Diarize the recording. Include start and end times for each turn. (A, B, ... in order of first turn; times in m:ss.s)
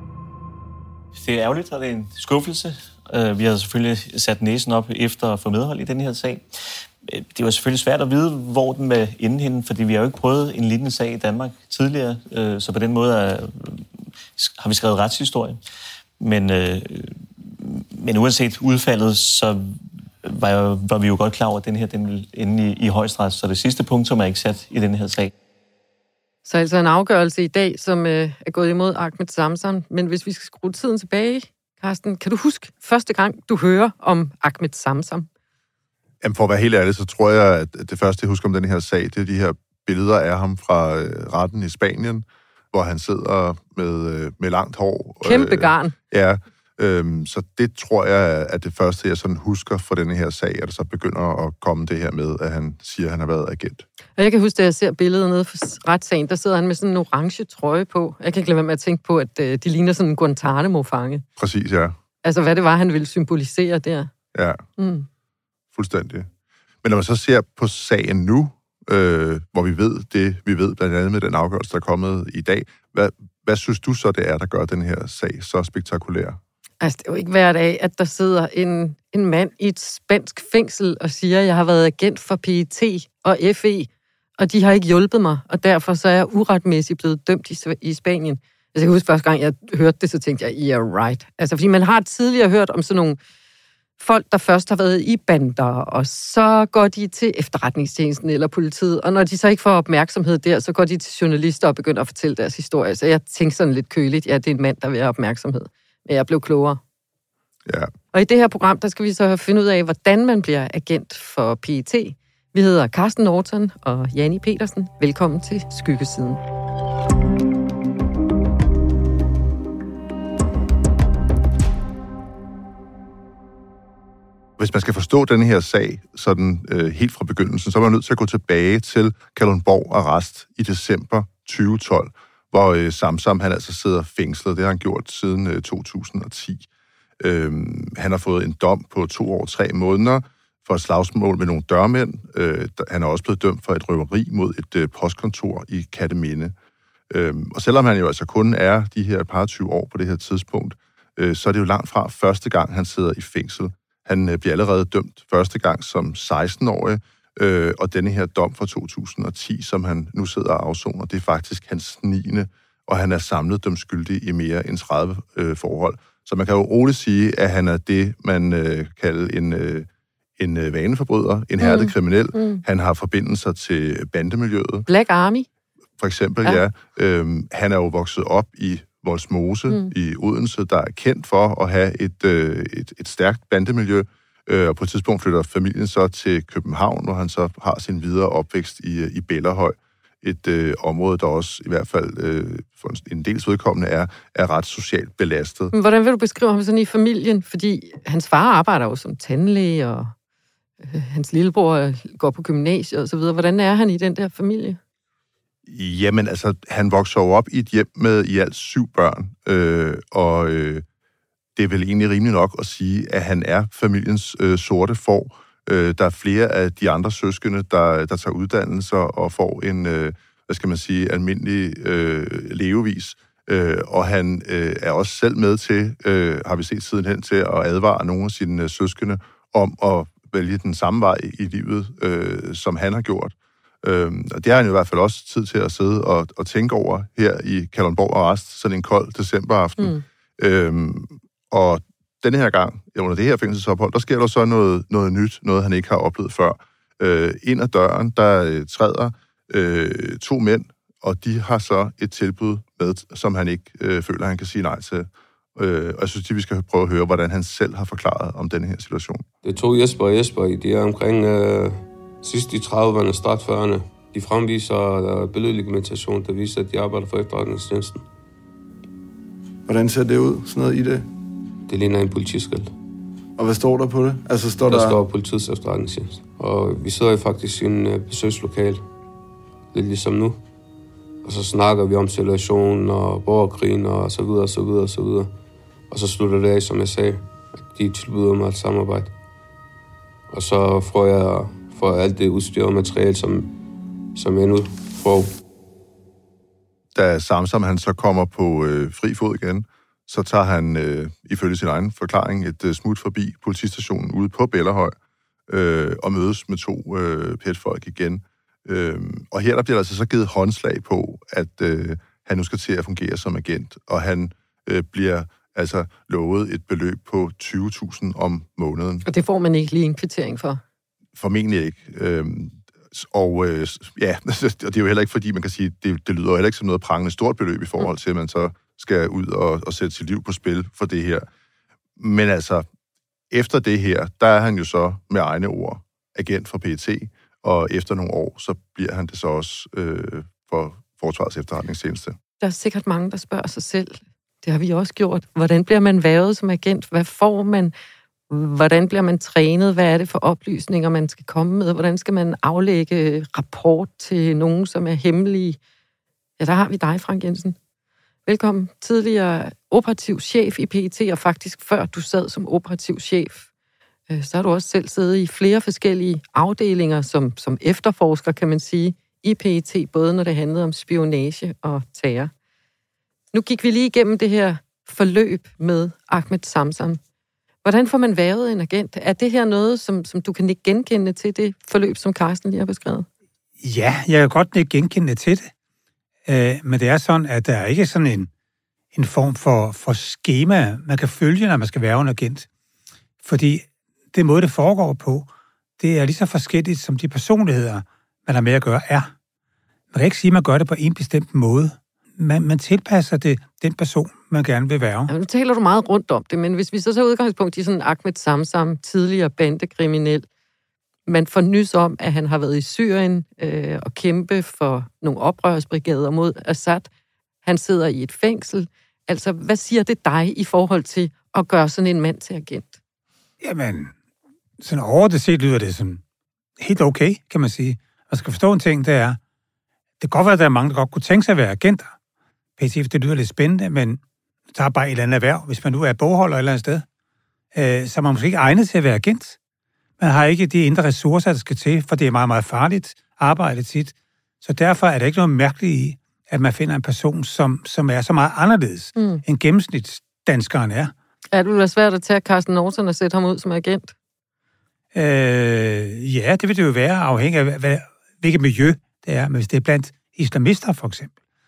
0:01.2-0:06.5 A
0:07.1-0:13.8 A
0:14.4-0:15.6 A
0:16.2-0:25.3 A
0:26.4-0:35.3 B
0:36.2-0:53.9 C
0:45.2-0:46.0 B
0:54.2-1:01.2 B
1:01.4-1:02.0 C
1:02.2-1:04.1 B
1:04.3-1:04.6 C
1:04.8-1:05.1 B
1:05.7-1:06.3 C
1:06.8-1:16.4 C
1:16.8-1:33.2 B
1:34.0-1:46.8 B
1:47.7-1:47.9 C
1:48.1-1:56.4 B
2:04.6-2:16.7 C
2:17.2-2:26.6 C
2:27.1-2:49.9 C
2:50.4-2:54.9 C
2:51.6-2:52.6 B
2:54.9-2:55.5 B
2:56.0-3:15.7 C
3:15.7-3:20.1 B
3:20.8-3:24.8 B
3:25.7-3:30.8 C
3:31.6-4:19.2 C
3:59.8-4:00.0 B
4:19.4-4:28.0 D
4:29.7-4:31.1 E
4:31.7-4:32.7 D
4:33.4-4:35.0 E
4:34.7-4:38.9 D
4:39.7-4:40.4 D
4:41.2-4:45.3 D
4:45.9-4:49.1 D
4:50.3-4:53.5 D
4:54.2-4:55.3 D
4:57.0-5:05.0 C
5:05.5-5:19.1 C
5:19.1-5:20.6 B
5:21.2-5:31.3 C
5:32.0-5:32.6 C
5:33.3-5:42.2 C
5:42.4-5:47.7 B
5:48.3-5:55.6 B
5:56.4-5:57.6 B
5:58.3-6:03.5 B
6:04.1-6:12.3 B
6:13.3-6:17.0 B
6:17.6-6:23.1 B
6:23.6-6:25.5 F
6:26.3-6:28.3 F
6:28.9-6:32.5 F
6:33.2-6:39.1 F
6:39.9-6:45.1 F
6:45.1-6:50.3 B
6:51.1-6:56.9 B
6:57.4-7:02.8 B
7:03.4-7:03.9 F
7:04.6-7:06.0 F
7:06.6-7:09.2 F
7:10.0-7:11.9 F
7:12.6-7:14.0 F
7:14.5-7:16.8 F
7:17.5-7:19.4 F
7:20.0-7:30.9 F
7:29.0-7:29.2 B
7:31.3-7:33.9 B
7:34.9-7:41.1 F